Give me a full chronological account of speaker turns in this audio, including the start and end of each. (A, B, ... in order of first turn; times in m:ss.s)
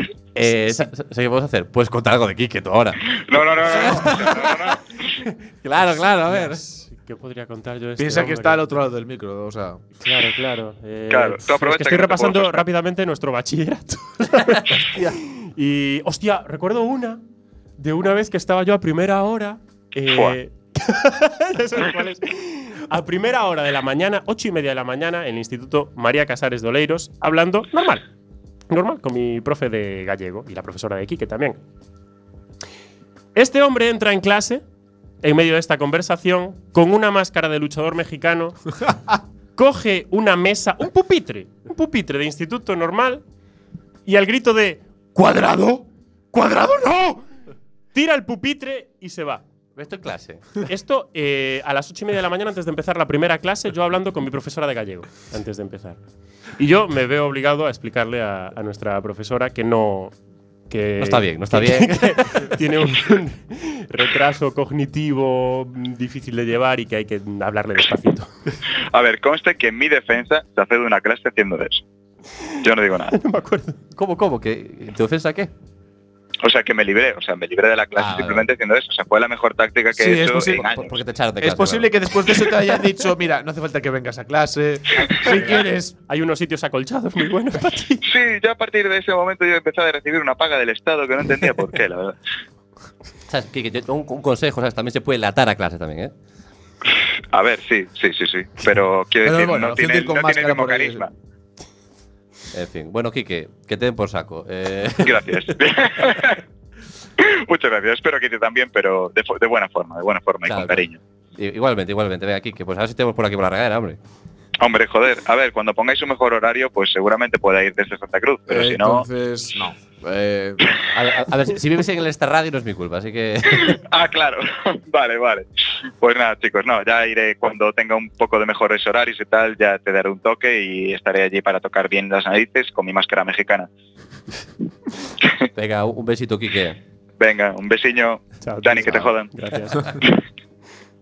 0:00.4-0:04.5 A
0:03.1-0:04.8 B
0:05.6-0:06.6 A
0:06.2-0:08.6 C
0:08.0-0:09.8 D
0:10.0-0:17.2 C
0:11.1-0:12.6 B
0:14.5-0:15.2 A
0:17.8-0:28.0 C
0:20.1-0:20.4 B
0:28.7-0:31.6 C
0:33.4-0:34.6 C
0:35.2-0:38.8 C
0:39.6-0:43.2 C
0:44.1-0:47.2 C
0:47.9-0:49.4 C
0:49.8-0:50.6 A
0:50.6-0:56.0 C
0:56.6-1:00.1 C
1:00.7-1:08.3 C
1:01.0-1:02.5 A
1:08.9-1:11.8 B
1:12.6-1:13.2 B
1:13.1-1:13.8 C
1:14.0-1:15.5 A
1:16.4-1:20.9 B
1:18.0-1:18.5 A
1:20.0-1:20.7 D
1:20.7-1:22.5 A
1:21.4-1:25.9 D
1:25.2-1:28.0 C
1:28.0-1:32.2 B
1:33.3-1:36.1 A
1:37.3-1:41.1 B
1:39.2-1:41.0 D
1:42.5-1:45.3 A
1:45.0-1:46.4 B
1:47.2-1:51.0 B
1:50.5-1:50.8 A
1:51.4-1:54.0 A
1:54.6-1:59.1 B
1:58.5-2:00.6 D
2:00.9-2:03.8 A
2:03.5-2:05.5 B
2:06.0-2:13.7 B
2:15.6-2:16.8 A
2:17.2-2:19.3 B
2:18.4-2:20.0 C